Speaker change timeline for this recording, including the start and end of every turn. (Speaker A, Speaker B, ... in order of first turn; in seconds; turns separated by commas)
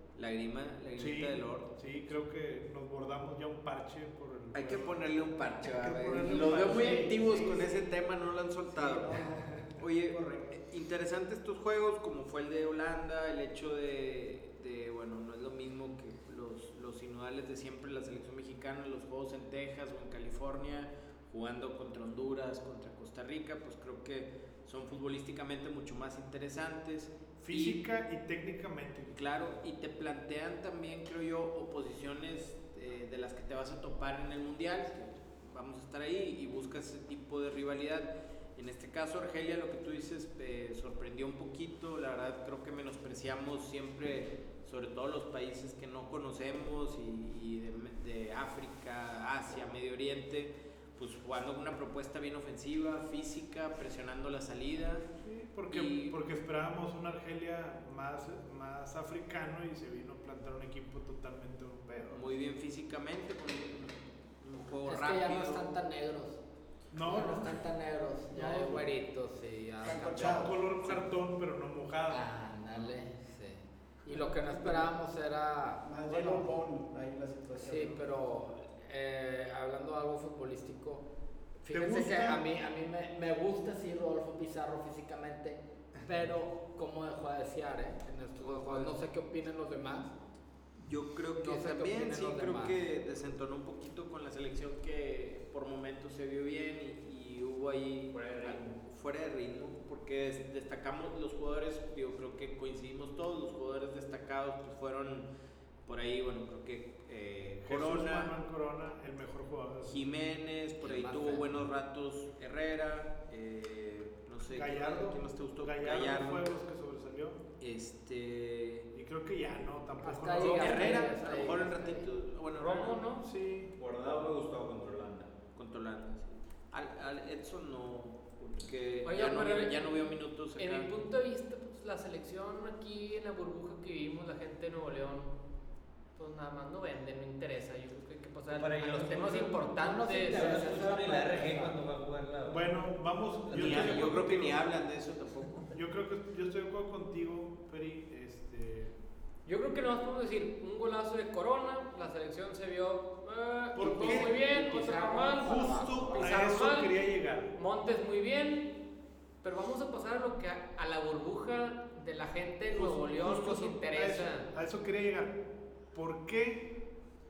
Speaker A: 0.2-1.7, Speaker B: 0.9-5.0, Speaker A: 4.5-9.2, Speaker C: 5.6-8.0, Speaker B: 5.9-7.1, Speaker C: 8.7-10.6, Speaker A: 9.7-27.8, Speaker B: 27.4-29.5, Speaker A: 29.1-55.0, Speaker B: 55.2-62.2, Speaker A: 55.7-56.2, Speaker A: 62.1-65.8, Speaker D: 64.8-66.4, Speaker B: 66.9-67.6, Speaker D: 67.0-71.0, Speaker C: 69.8-70.6, Speaker B: 70.2-72.2, Speaker D: 72.1-76.5, Speaker C: 75.8-78.0, Speaker D: 77.5-81.1, Speaker D: 81.6-90.1, Speaker B: 81.7-82.4, Speaker A: 88.4-88.9, Speaker E: 88.5-88.9, Speaker A: 90.8-105.3, Speaker D: 91.4-92.8, Speaker E: 98.1-98.8, Speaker A: 105.9-108.3, Speaker B: 107.6-110.0, Speaker A: 109.9-116.5, Speaker D: 110.8-111.5, Speaker B: 114.5-117.4, Speaker A: 117.6-118.9, Speaker B: 118.9-121.0, Speaker D: 120.0-122.1, Speaker A: 120.4-123.0, Speaker F: 122.5-123.2, Speaker B: 123.2-123.7, Speaker E: 123.7-125.3, Speaker A: 125.5-130.9, Speaker F: 129.1-129.9, Speaker F: 130.6-135.3, Speaker F: 136.2-140.7, Speaker E: 138.5-142.8, Speaker D: 139.9-141.5, Speaker C: 140.2-141.8, Speaker B: 142.4-144.6, Speaker E: 143.4-144.1, Speaker A: 143.5-145.7, Speaker B: 145.7-148.9, Speaker F: 149.4-156.9, Speaker B: 153.8-154.4, Speaker D: 153.8-156.3, Speaker B: 155.4-157.5, Speaker F: 157.6-158.7, Speaker F: 159.4-164.5, Speaker B: 162.7-165.4, Speaker B: 165.9-166.8